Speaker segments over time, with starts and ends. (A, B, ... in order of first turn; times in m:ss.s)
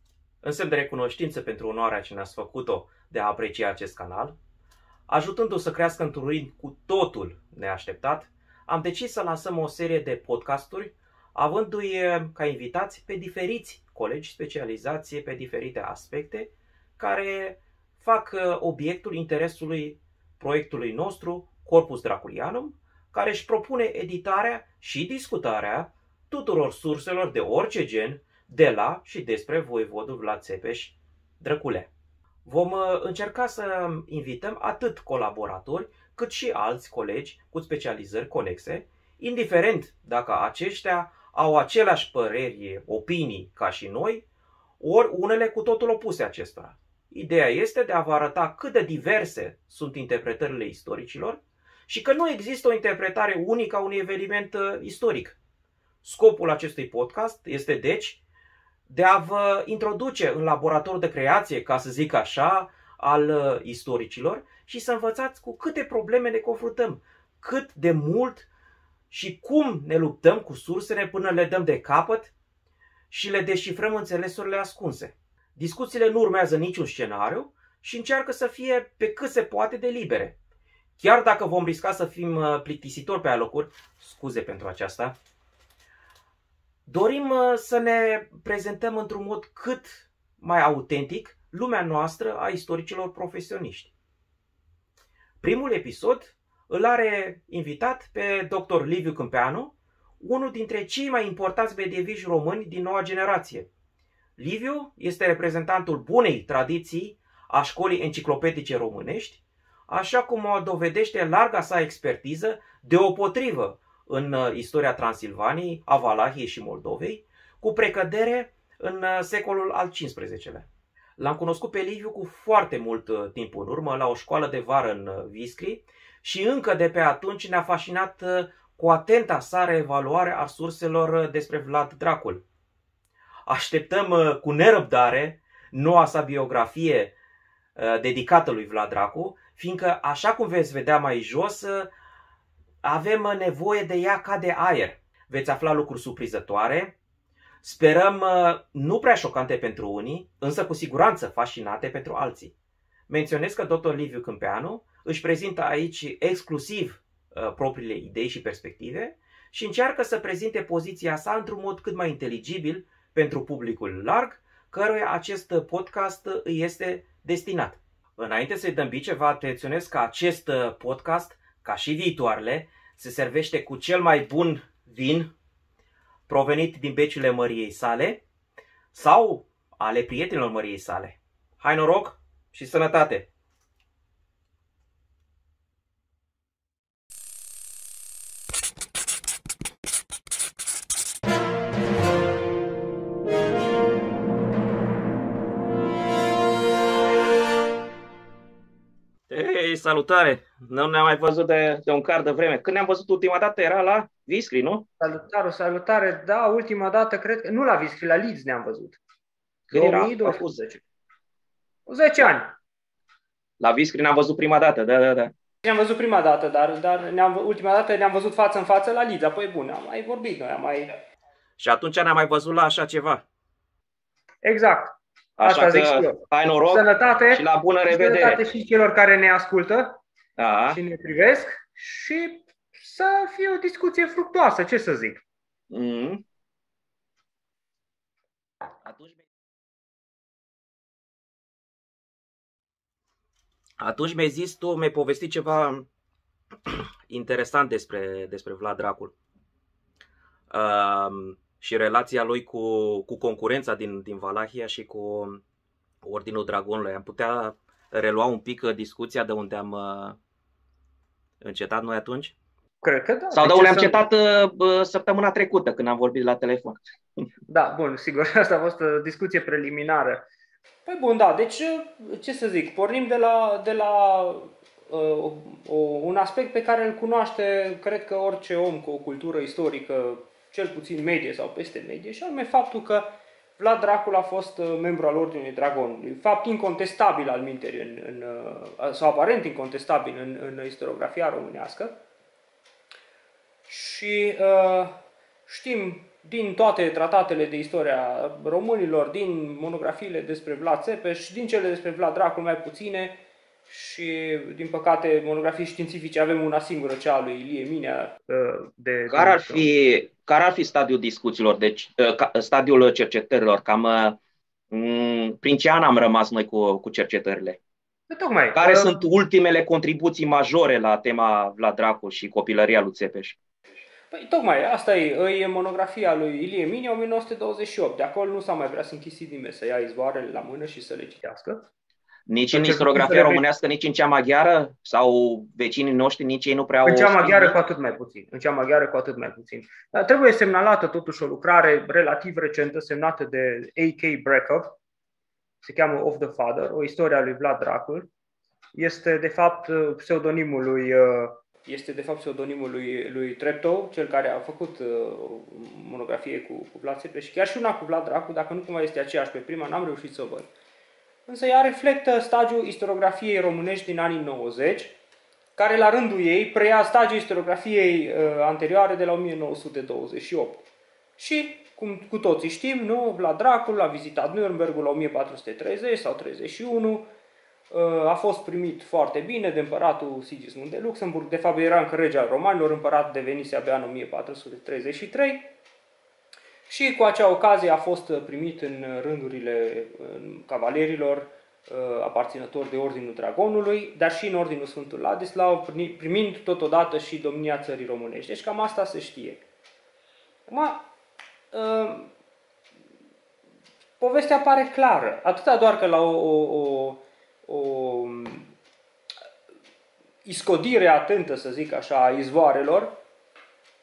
0:00.4-0:04.4 A
0:05.1-0:31.9 A
0:32.4-0:44.2 A
0:44.8-0:55.4 A
0:56.0-0:58.2 A
0:58.9-1:08.5 A
1:09.1-1:12.3 A
1:13.1-1:20.3 A
1:21.0-1:25.1 A
1:26.9-1:33.9 A
1:35.4-1:43.7 A
1:44.4-2:00.7 A
2:01.2-2:12.4 A
2:13.5-2:17.1 A
2:17.8-2:21.9 A
2:22.8-2:27.0 A
2:27.6-2:32.5 A
2:33.1-2:55.3 A
2:56.3-2:58.2 A
2:58.9-3:03.3 A
3:19.3-3:24.8 A
3:25.0-3:29.0 B
3:29.7-3:30.6 A
3:29.7-3:30.8 B
3:31.9-3:32.6 B
3:33.6-3:35.3 A
3:35.6-3:41.0 B
3:41.6-3:43.2 A
3:44.4-3:50.0 B
3:45.4-3:48.4 A
3:50.4-3:50.8 A
3:50.7-3:55.2 B
3:55.7-3:56.2 A
3:58.8-3:59.2 A
4:03.8-4:05.8 A
4:06.7-4:09.1 A
4:10.5-4:15.4 A
4:16.0-4:20.2 A
4:21.4-4:22.4 A
4:22.8-4:24.0 B
4:23.3-4:26.8 A
4:27.5-4:30.3 B
4:30.9-4:52.0 B
4:53.7-5:09.7 B
5:09.1-5:14.2 A
5:14.7-5:17.6 A
5:18.1-5:18.9 B
5:18.5-5:23.4 A
5:24.1-5:31.7 B
5:32.3-5:37.6 A
5:32.5-5:33.4 B
5:36.8-5:44.7 B
5:45.6-5:48.1 B
5:48.8-6:00.5 B
6:01.2-6:05.0 B
6:05.6-6:10.6 B
6:11.2-6:17.1 B
6:17.7-6:25.5 B
6:26.7-6:39.4 B
6:40.5-6:40.8 B
6:41.5-6:42.1 B
6:44.0-6:48.5 B
6:50.2-6:53.0 B